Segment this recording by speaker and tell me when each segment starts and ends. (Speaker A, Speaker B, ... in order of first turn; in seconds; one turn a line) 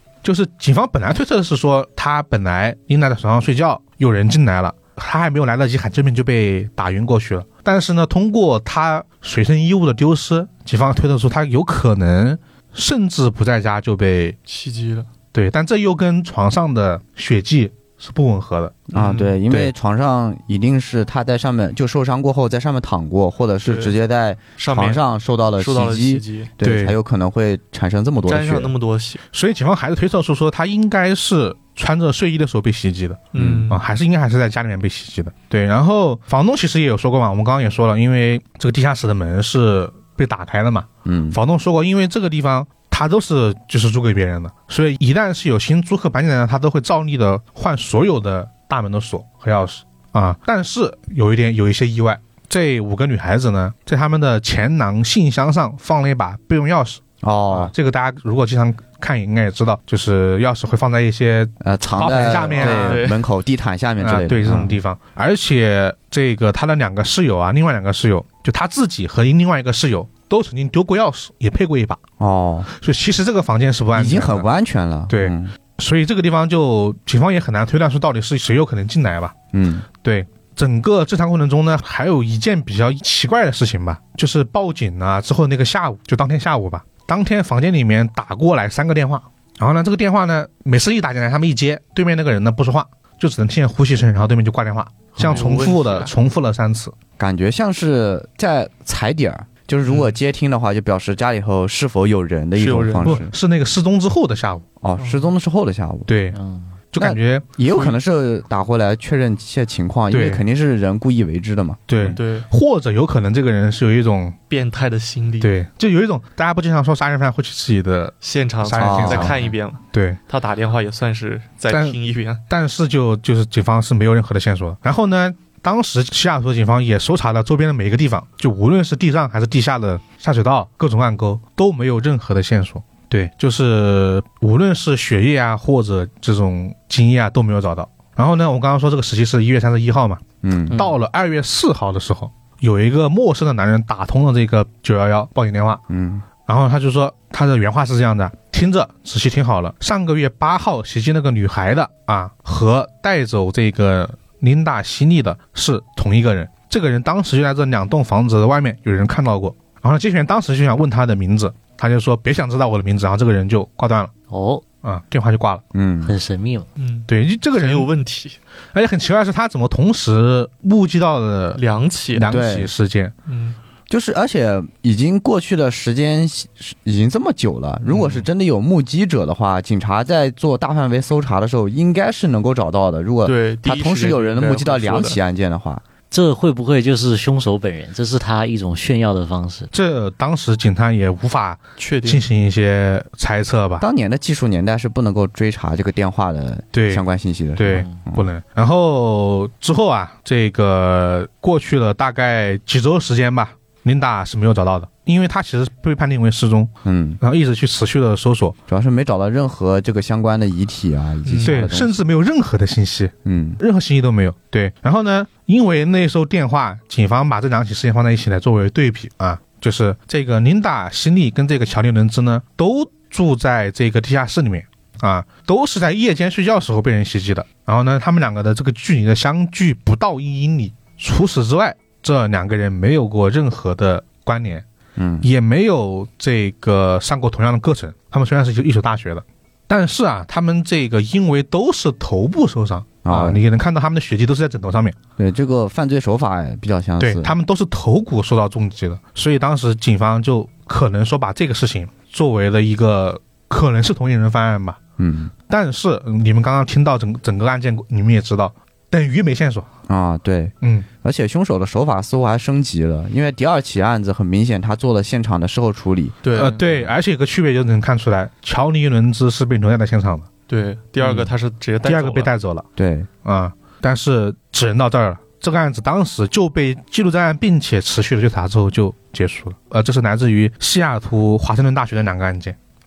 Speaker A: 0.2-14.4
Speaker B: 14.5-15.1
Speaker A: 15.3-18.9
Speaker C: 18.9-28.7
Speaker B: 18.9-19.4
Speaker B: 23.6-23.9
Speaker B: 24.6-25.0
Speaker B: 25.6-26.5
Speaker A: 26.6-27.0
Speaker B: 28.3-29.2
Speaker A: 29.3-63.1
Speaker B: 33.3-33.8
Speaker C: 33.4-33.7
Speaker C: 41.1-41.4
Speaker C: 57.2-57.7
Speaker C: 61.6-64.8
Speaker B: 62.3-63.2
Speaker A: 64.0-72.0
Speaker C: 72.2-72.7
Speaker A: 72.7-74.5
Speaker C: 73.9-75.5
Speaker A: 75.1-79.3
Speaker C: 79.5-79.9
Speaker A: 80.0-96.9
Speaker B: 95.2-96.1
Speaker C: 97.2-103.3
Speaker B: 99.8-100.1
Speaker B: 102.6-103.2
Speaker A: 103.0-104.7
Speaker C: 104.8-106.1
Speaker B: 105.0-105.3
Speaker A: 106.1-106.4
Speaker D: 106.3-106.7
Speaker A: 106.9-107.5
Speaker C: 107.0-112.2
Speaker B: 107.7-108.0
Speaker A: 110.1-110.4
Speaker A: 111.9-114.4
Speaker B: 112.1-112.5
Speaker B: 114.5-115.5
Speaker A: 115.4-119.4
Speaker B: 118.2-122.4
Speaker C: 118.8-119.5
Speaker A: 119.9-120.2
Speaker A: 121.7-122.0
Speaker A: 122.5-145.8
Speaker C: 140.4-140.9
Speaker C: 145.9-146.3
Speaker A: 146.4-164.1
Speaker D: 164.3-164.6
Speaker A: 164.8-165.6
Speaker C: 165.7-166.2
Speaker D: 166.0-166.7
Speaker B: 166.8-168.4
Speaker A: 167.1-167.9
Speaker A: 168.7-171.6
Speaker B: 171.6-172.3
Speaker A: 172.1-173.1
Speaker C: 172.3-172.7
Speaker B: 173.3-173.6
Speaker C: 173.9-185.8
Speaker B: 177.9-178.2
Speaker B: 183.2-185.2
Speaker D: 186.1-189.7
Speaker A: 189.7-193.8
Speaker B: 191.8-192.2
Speaker C: 193.8-198.3
Speaker A: 196.7-197.0
Speaker A: 197.6-208.6
Speaker C: 206.8-207.2
Speaker C: 208.7-212.0
Speaker B: 211.3-211.6
Speaker A: 211.4-234.7
Speaker C: 213.2-213.6
Speaker C: 235.0-235.3
Speaker A: 235.2-245.0
Speaker C: 243.0-243.4
Speaker C: 245.2-247.4
Speaker A: 247.0-254.8
Speaker C: 255.0-255.3
Speaker A: 255.5-259.7
Speaker C: 259.9-266.2
Speaker A: 260.6-260.9
Speaker B: 266.2-266.8
Speaker A: 266.3-270.3
Speaker B: 270.5-272.3
Speaker A: 271.8-272.7
Speaker C: 272.8-273.1
Speaker A: 273.2-282.6